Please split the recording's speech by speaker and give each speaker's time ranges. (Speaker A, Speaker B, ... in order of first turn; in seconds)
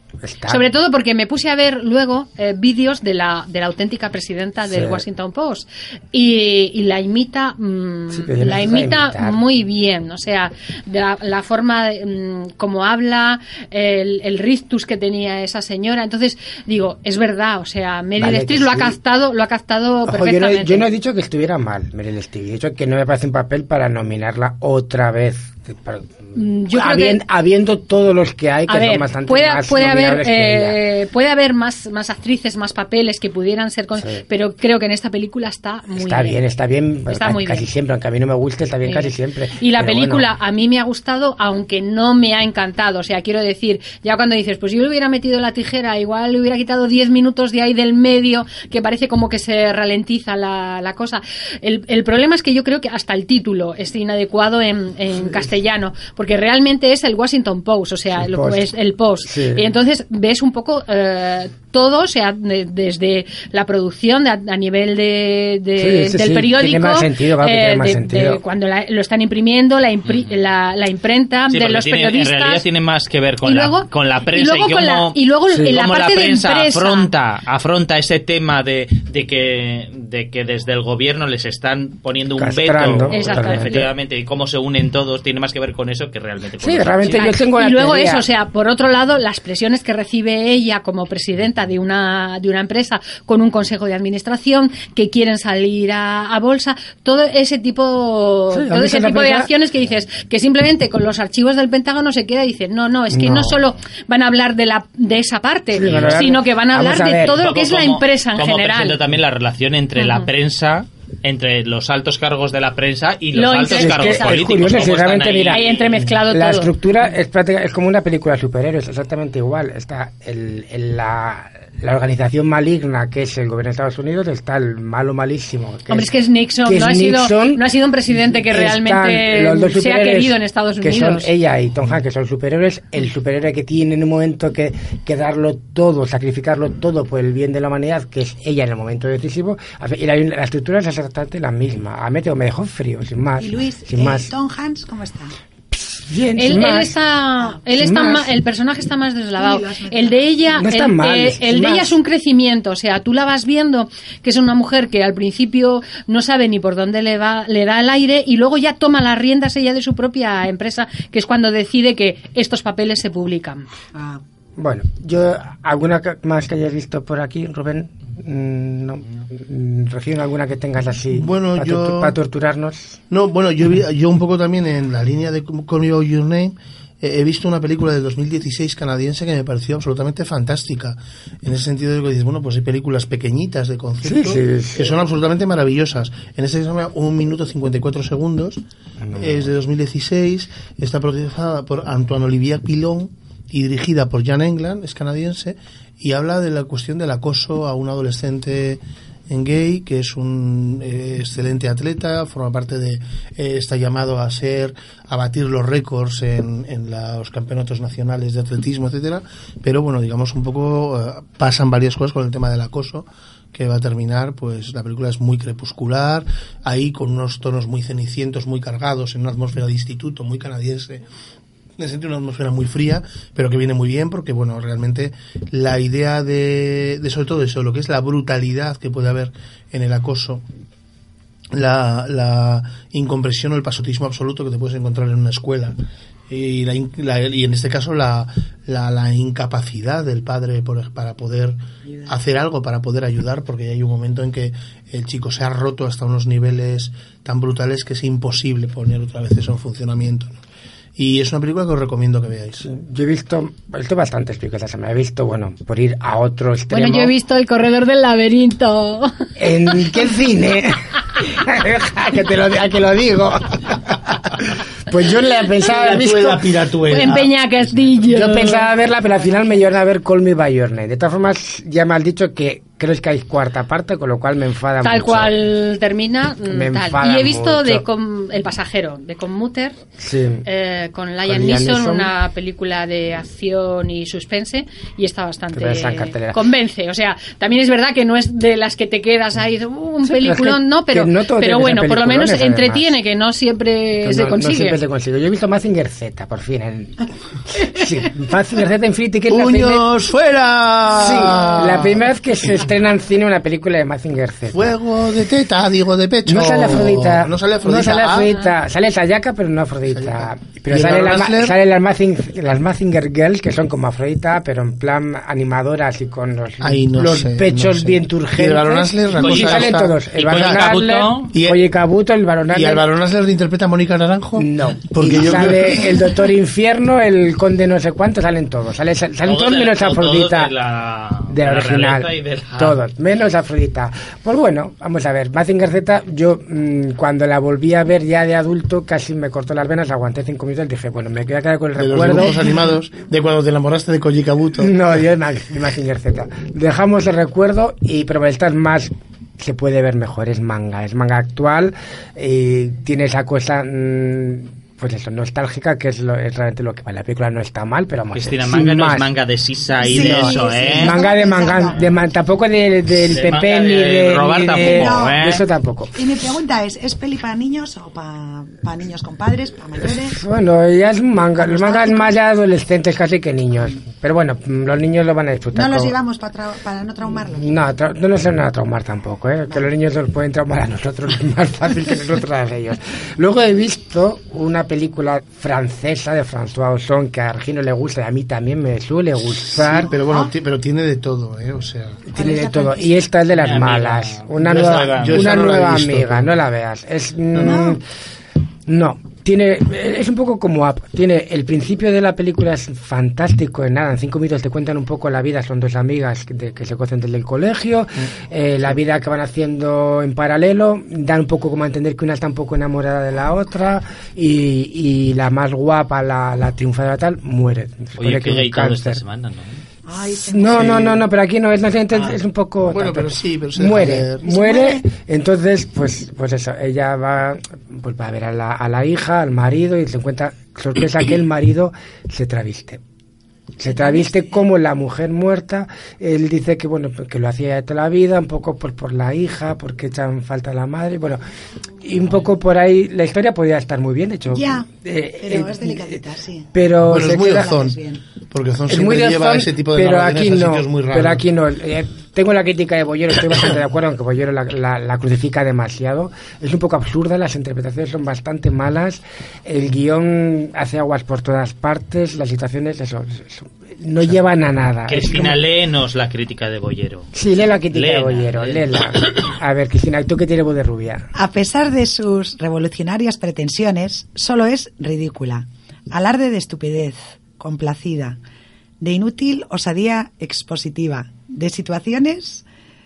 Speaker A: 0.2-0.7, 4.7-5.0, 8.1-9.4, 18.2-19.0, 20.1-30.8, 36.0-40.3, 58.2-58.7, 59.2-59.7, 65.8-68.4, 75.5-75.8, 82.4-83.9, 86.6-88.2, 98.5-99.5, 103.1-103.6, 105.7-107.4, 113.7-115.6, 116.3-126.1, 126.7-127.6, 128.5-144.3, 145.7-146.9, 147.8-148.3, 150.6-152.0, 164.6-173.0, 184.0-184.9, 189.0-189.5, 252.6-257.1, 259.4-266.5, 268.1-275.4, 276.5-277.9, 280.0-280.5, 281.3-282.1, 285.5-286.4, 290.1-292.9, 294.0-299.8, 301.0-304.8, 306.3-322.9, 324.4-330.5, 331.3-342.4, 344.6-359.1, 359.9-366.0, 369.8-375.9, 377.4-389.9, 392.1-397.8, 398.7-419.0, 420.2-432.8, 433.6-441.2, 441.8-446.0, 446.5-447.5, 448.7-465.4, 467.1-471.1
Speaker B: 0.5-20.9, 26.4-27.2, 28.7-36.4, 37.1-37.6, 38.9-72.7, 73.4-77.1, 83.1-83.9, 87.1-109.0, 110.0-110.3, 113.3-114.8, 115.5-116.7, 125.9-131.3, 146.4-163.7, 256.7-259.1, 266.9-268.7, 274.8-279.8, 280.5-294.8
Speaker C: 70.1-70.3, 71.5-87.3, 105.8-106.3, 107.2-116.1, 319.2-321.3, 329.3-332.8, 358.1-361.0, 363.1-365.4, 393.4-395.4, 418.0-419.6, 464.9-467.1, 467.7-469.1
Speaker D: 143.4-145.3, 149.4-150.4, 163.9-164.2, 359.8-361.9, 364.5-365.2, 365.9-370.2, 371.4-372.2, 375.5-377.6, 389.7-390.3, 392.1-393.1, 397.4-397.8, 419.9-421.0, 424.2-424.9, 433.6-434.5, 444.3-446.6, 447.2-448.0, 471.1-478.2, 478.8-482.4
Speaker E: 171.1-172.2, 173.1-188.6, 189.1-221.0, 221.8-230.4, 231.5-250.4, 251.0-252.7, 265.6-267.3, 268.1-268.6, 299.3-302.1, 304.5-308.4, 309.9-311.6, 316.6-321.6, 322.5-326.0, 341.8-344.9, 389.5-392.0, 394.4-396.4, 420.5-421.0, 422.7-424.3, 446.9-447.8, 448.3-451.2